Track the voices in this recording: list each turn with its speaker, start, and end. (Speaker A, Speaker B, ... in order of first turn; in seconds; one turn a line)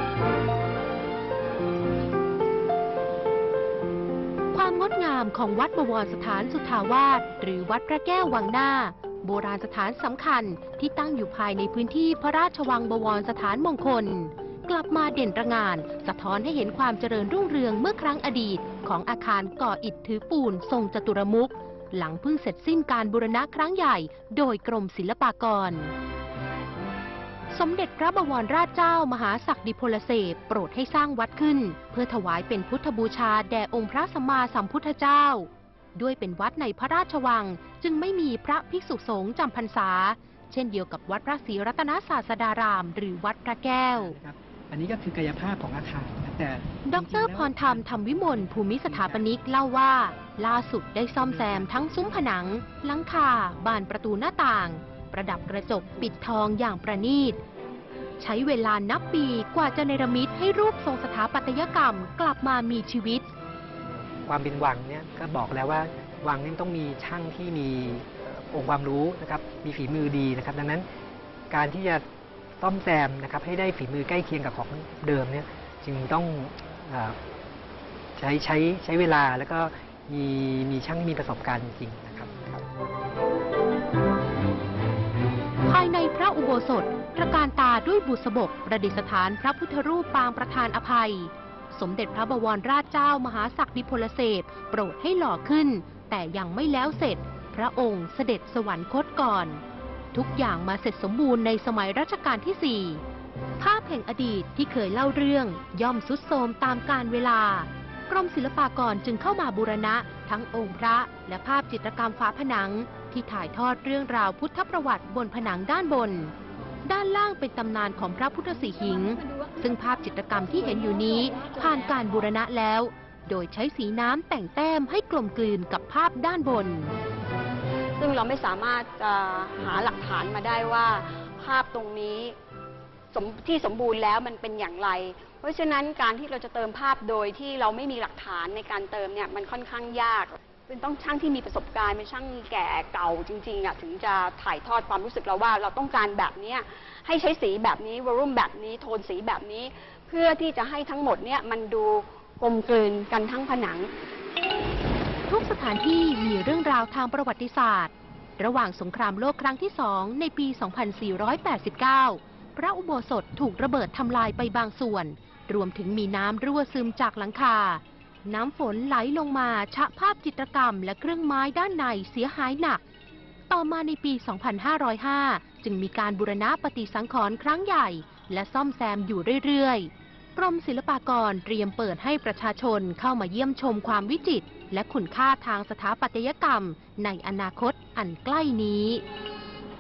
Speaker A: 4.5-25.9
Speaker A: 27.5-44.2
Speaker B: 43.8-49.4
Speaker A: 46.9-57.4
Speaker B: 51.2-52.0
Speaker A: 58.2-63.3
Speaker B: 64.2-70.9
Speaker B: 71.5-72.0
Speaker B: 72.6-77.2
Speaker B: 78.2-82.6
Speaker A: 85.7-99.6
Speaker A: 100.1-103.0
Speaker A: 103.6-116.3
Speaker A: 116.8-126.9
Speaker C: 119.0-119.8
Speaker C: 120.4-122.0
Speaker C: 128.0-132.3
Speaker C: 133.1-153.9
Speaker A: 155.3-172.8
Speaker A: 173.5-189.0